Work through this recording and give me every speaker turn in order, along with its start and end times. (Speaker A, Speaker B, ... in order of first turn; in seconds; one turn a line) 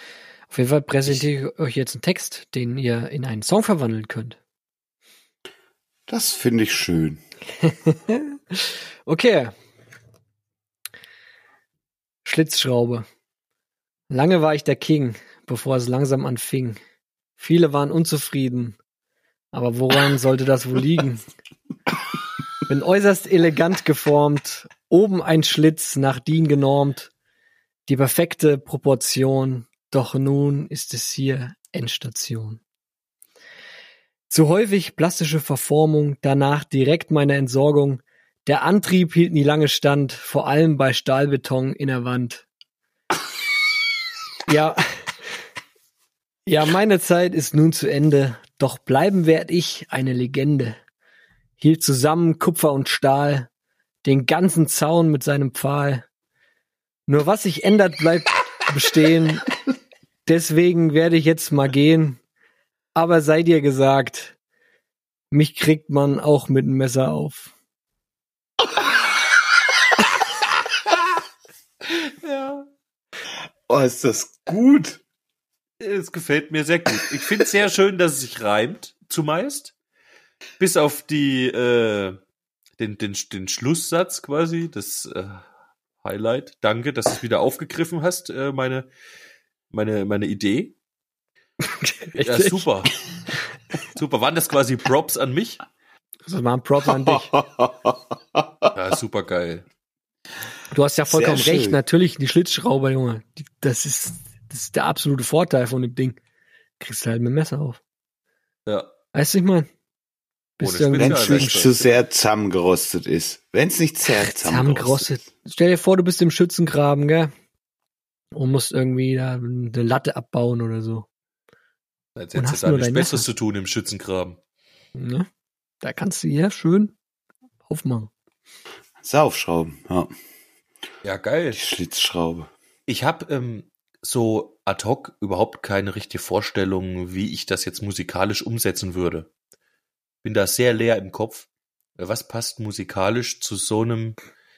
Speaker A: 0.5-4.4
Speaker B: 6.1-7.2
Speaker A: 7.6-9.5
Speaker A: 12.2-13.1
Speaker A: 14.1-16.8
Speaker A: 17.4-18.8
Speaker A: 19.5-21.2
Speaker A: 22.7-27.1
Speaker A: 27.9-32.6
Speaker A: 34.3-42.5
Speaker A: 44.5-44.9
Speaker A: 46.5-50.8
Speaker A: 51.6-53.5
Speaker A: 54.0-56.1
Speaker A: 57.1-59.5
Speaker A: 60.2-62.2
Speaker A: 63.0-64.3
Speaker A: 65.3-67.5
Speaker C: 72.2-72.7
Speaker B: 73.7-75.0
Speaker C: 75.8-79.7
Speaker C: 80.6-82.2
Speaker C: 82.8-85.4
Speaker C: 86.0-88.9
Speaker C: 89.7-90.7
Speaker A: 91.6-92.7
Speaker C: 92.2-92.9
Speaker C: 93.9-95.6
Speaker A: 96.2-97.3
Speaker B: 97.0-98.7
Speaker C: 98.8-99.7
Speaker A: 100.7-106.2
Speaker B: 101.1-101.8
Speaker A: 106.8-107.8
Speaker A: 109.1-109.7
Speaker A: 110.6-111.5
Speaker C: 110.6-111.9
Speaker B: 111.0-115.1
Speaker A: 114.2-117.3
Speaker A: 118.3-121.1
Speaker C: 122.2-124.4
Speaker A: 122.4-123.3
Speaker A: 125.0-125.3
Speaker A: 125.8-126.9
Speaker A: 127.7-128.1
Speaker B: 129.0-130.1
Speaker C: 131.0-131.6
Speaker B: 131.5-132.5
Speaker C: 132.9-139.3
Speaker C: 140.2-141.5
Speaker C: 142.0-144.2